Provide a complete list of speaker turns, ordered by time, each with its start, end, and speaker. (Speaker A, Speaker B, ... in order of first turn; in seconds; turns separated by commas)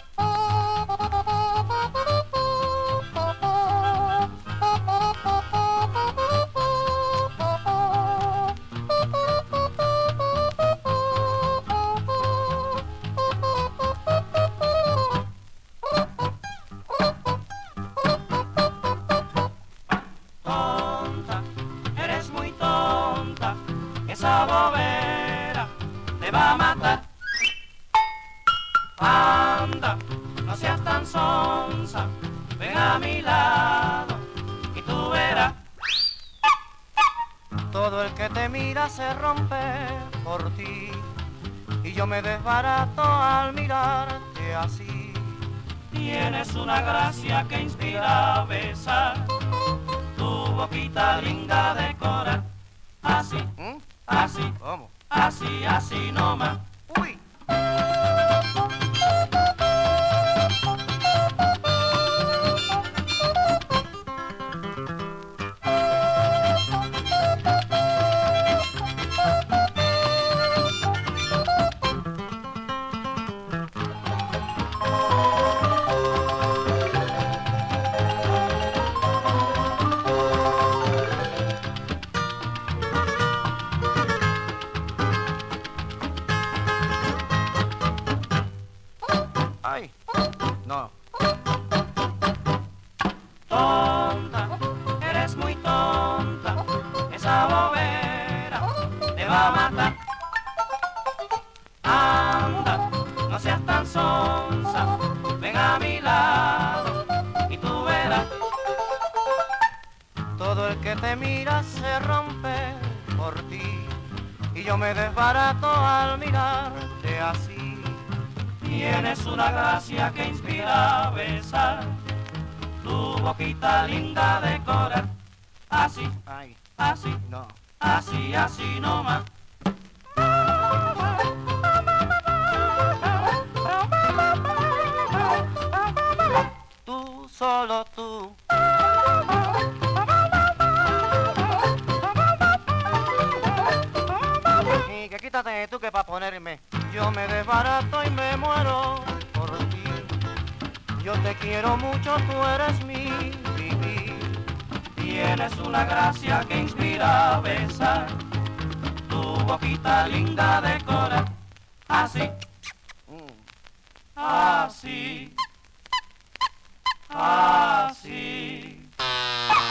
Speaker A: 20.4-27.1, Speaker A: 29.0-35.6, Speaker B: 37.7-41.2, Speaker B: 41.8-45.6, Speaker A: 45.9-53.5, Speaker B: 53.6-54.9, Speaker A: 54.1-56.7, Speaker B: 56.9-57.2, Speaker B: 89.6-89.9, Speaker B: 90.6-90.9, Speaker A: 93.5-100.1, Speaker A: 101.8-108.4, Speaker B: 110.3-118.2, Speaker A: 118.6-122.1, Speaker A: 122.8-126.2, Speaker B: 126.2-127.6, Speaker A: 126.8-127.2, Speaker A: 127.8-129.3, Speaker B: 136.8-138.4, Speaker B: 144.7-150.3, Speaker B: 150.9-154.5, Speaker A: 154.9-158.4, Speaker A: 159.0-162.4, Speaker B: 163.1-163.4, Speaker A: 164.2-165.4, Speaker A: 167.1-168.9